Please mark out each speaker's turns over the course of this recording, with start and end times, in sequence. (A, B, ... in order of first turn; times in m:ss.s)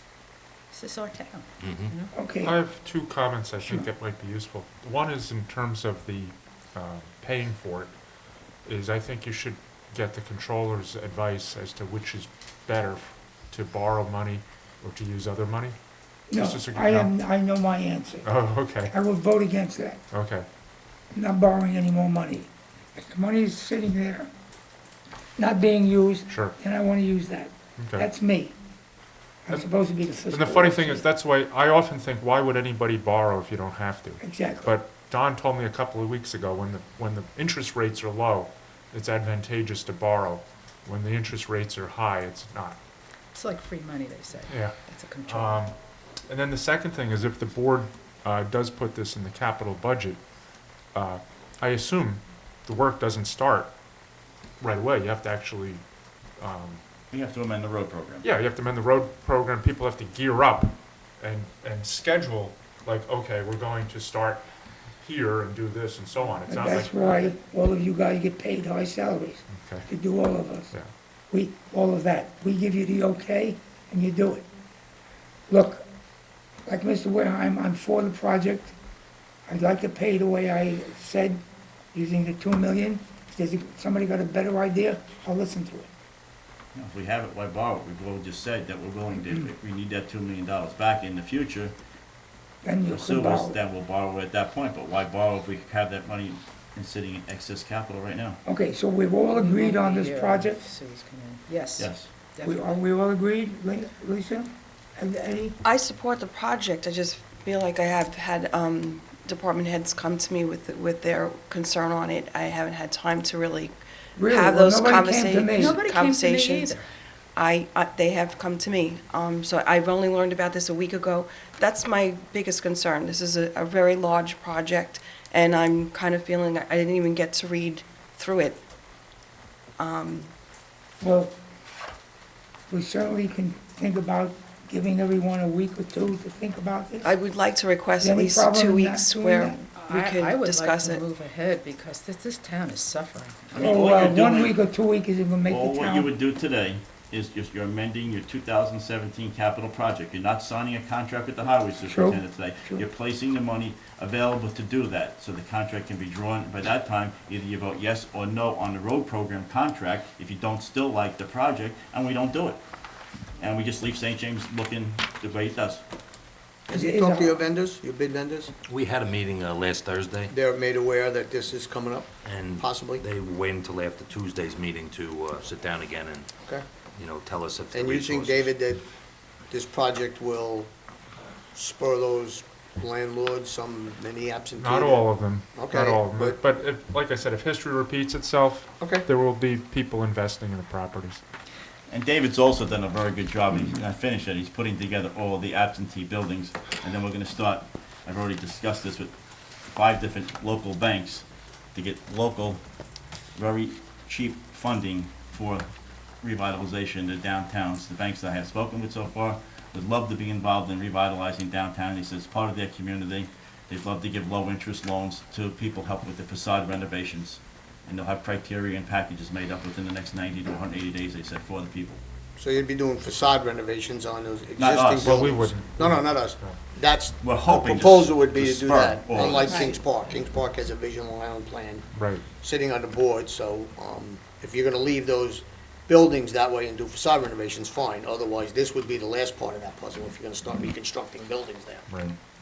0:00.7-0:02.1 A
0:01.6-0:01.9 B
0:02.1-0:02.6 C
0:02.4-0:08.0 D
0:08.6-0:15.8 D
0:16.3-0:20.0 C
0:16.3-0:17.1 D
0:18.2-0:18.9 D
0:20.1-0:20.5 D
0:21.1-0:24.3 C
0:25.4-0:28.6 C
0:26.3-0:26.5 D
0:27.8-0:28.1 D
0:29.5-0:31.1 C
0:30.3-0:42.8 D
0:34.2-0:34.8 C
0:43.3-0:45.6 A
0:44.5-0:45.7 D
0:46.3-0:50.2 D
0:50.9-0:53.7 D
0:54.6-0:55.8 D
0:56.4-0:56.8 D
0:57.1-0:58.3 E
0:58.2-1:04.5 D
1:05.0-1:07.3 D
1:06.5-1:10.7 C
1:09.5-1:09.9 D
1:11.3-1:14.5 C
1:15.5-1:15.8 C
1:16.7-1:18.8 C
1:19.5-1:21.4 C
1:21.9-1:25.9 C
1:26.7-1:31.8 E
1:32.6-1:33.6 C
1:32.9-1:38.4 E
1:38.4-1:40.6 C
1:39.3-1:42.8 A
1:41.8-1:42.1 E
1:42.4-1:45.6 C
1:45.6-1:53.8 F
1:54.2-1:55.8 C
1:54.3-1:56.8 F
1:55.6-1:56.9 A
1:57.4-2:08.6 F
2:09.8-2:10.3 F
2:11.0-2:11.4 C
2:12.7-2:17.2 C
2:17.0-2:21.0 F
2:18.0-2:19.6 C
2:19.8-2:23.4 A
2:23.5-2:24.6 E
2:23.5-2:26.1 C
2:25.5-2:42.6 E
2:31.8-2:32.8 C
2:43.4-2:45.8 E
2:46.7-2:48.5 G
2:46.7-2:47.4 C
2:48.7-2:50.3 B
2:50.3-2:53.0 G
2:52.2-2:56.3 B
2:57.0-2:58.6 B
2:57.7-2:58.8 G
2:59.5-3:00.7 G
3:01.5-3:06.4 G
3:04.6-3:11.2 D
3:08.8-3:09.1 G
3:11.9-3:19.1 E
3:19.7-3:22.6 E
3:23.4-3:25.7 E
3:26.2-3:42.0 E
3:42.4-3:51.9 G
3:44.6-3:45.2 E
3:45.0-3:46.6 D
3:47.2-3:49.7 E
3:51.9-3:52.2 D
3:52.4-4:01.9 G
4:01.9-4:02.2 D